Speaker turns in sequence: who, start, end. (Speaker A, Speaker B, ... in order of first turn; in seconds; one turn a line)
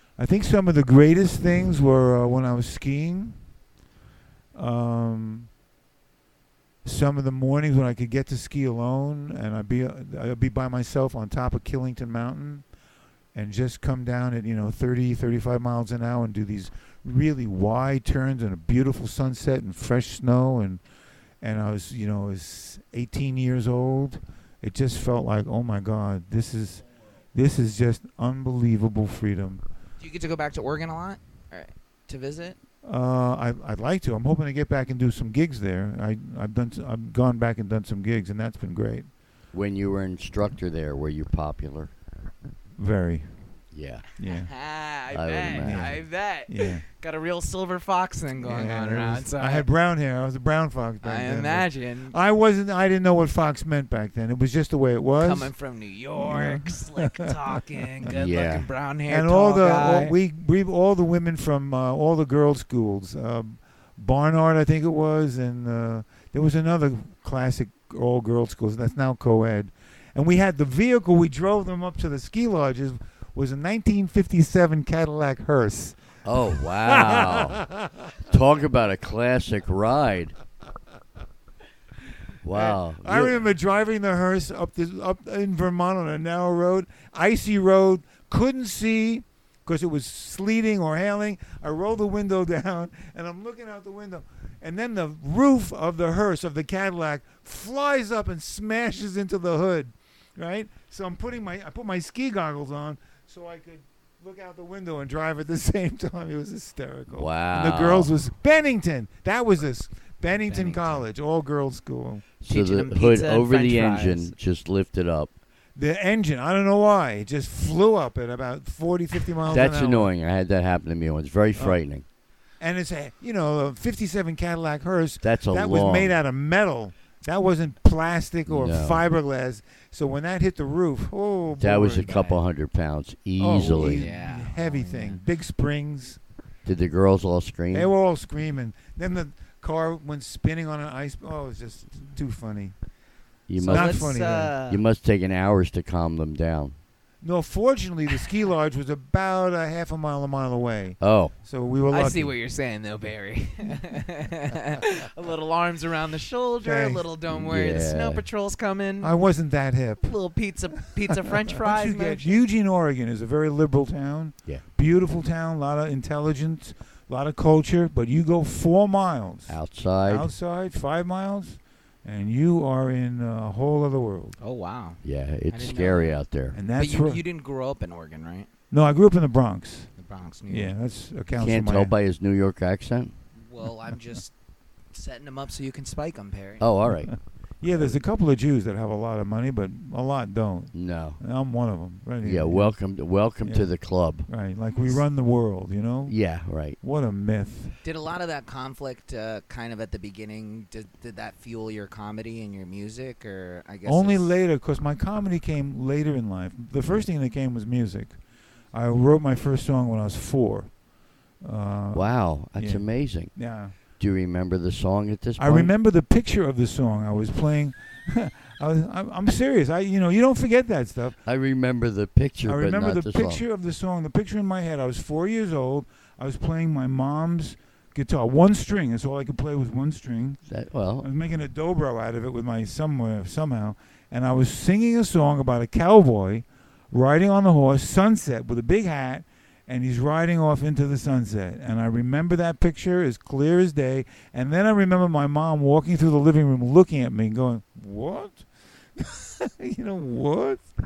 Speaker A: 0.2-3.4
Speaker A: 4.5-5.5
Speaker A: 6.8-12.7
Speaker A: 13.3-20.8
Speaker A: 21.4-29.6
Speaker B: 30.0-32.6
Speaker A: 32.9-39.1
Speaker C: 39.5-41.9
Speaker A: 42.8-43.5
Speaker C: 43.7-44.0
Speaker A: 44.2-44.5
Speaker B: 44.3-49.6
Speaker C: 45.1-46.0
Speaker A: 45.6-46.9
Speaker A: 48.4-55.5
Speaker B: 51.0-52.2
Speaker B: 55.2-60.1
Speaker A: 56.2-58.1
Speaker C: 58.1-58.7
Speaker A: 59.1-76.0
Speaker C: 76.2-77.6
Speaker A: 76.6-78.0
Speaker C: 78.3-80.4
Speaker C: 82.4-83.4
Speaker A: 82.5-112.2
Speaker C: 107.1-108.1
Speaker B: 110.5-111.0
Speaker C: 112.4-115.3
Speaker B: 112.5-114.3
Speaker A: 115.8-120.1
Speaker C: 119.5-122.0
Speaker A: 121.6-121.8
Speaker A: 122.6-132.2
Speaker C: 125.2-126.1
Speaker C: 128.5-129.0
Speaker C: 131.6-134.1
Speaker B: 132.1-132.4
Speaker A: 133.4-136.2
Speaker B: 133.8-135.2
Speaker C: 136.7-137.9
Speaker A: 137.7-142.8
Speaker C: 143.5-146.8
Speaker A: 143.6-144.5
Speaker B: 143.7-144.8
Speaker A: 147.2-152.3
Speaker C: 151.0-151.3
Speaker B: 151.9-159.1
Speaker A: 156.6-157.1
Speaker C: 157.3-158.2
Speaker A: 159.0-160.1
Speaker B: 160.0-162.4
Speaker A: 161.1-174.4
Speaker C: 169.5-170.3
Speaker B: 174.4-176.2
Speaker C: 175.0-176.6
Speaker A: 176.5-177.2
Speaker B: 176.7-178.5
Speaker A: 178.7-179.9
Speaker B: 180.0-180.7
Speaker A: 180.5-181.9
Speaker C: 181.4-183.1
Speaker B: 183.4-184.3
Speaker B: 184.9-186.7
Speaker C: 186.6-187.2
Speaker A: 187.1-192.8
Speaker C: 187.7-188.0
Speaker C: 190.7-191.2
Speaker C: 192.2-194.3
Speaker A: 193.4-193.7
Speaker A: 194.3-196.2
Speaker C: 196.1-196.8
Speaker A: 196.8-197.8
Speaker B: 197.8-204.4
Speaker A: 203.8-208.2
Speaker A: 208.7-210.7
Speaker A: 211.4-213.8
Speaker C: 211.9-215.7
Speaker A: 215.4-221.2
Speaker C: 221.3-223.4
Speaker A: 222.5-230.4
Speaker C: 230.5-231.1
Speaker A: 231.0-250.7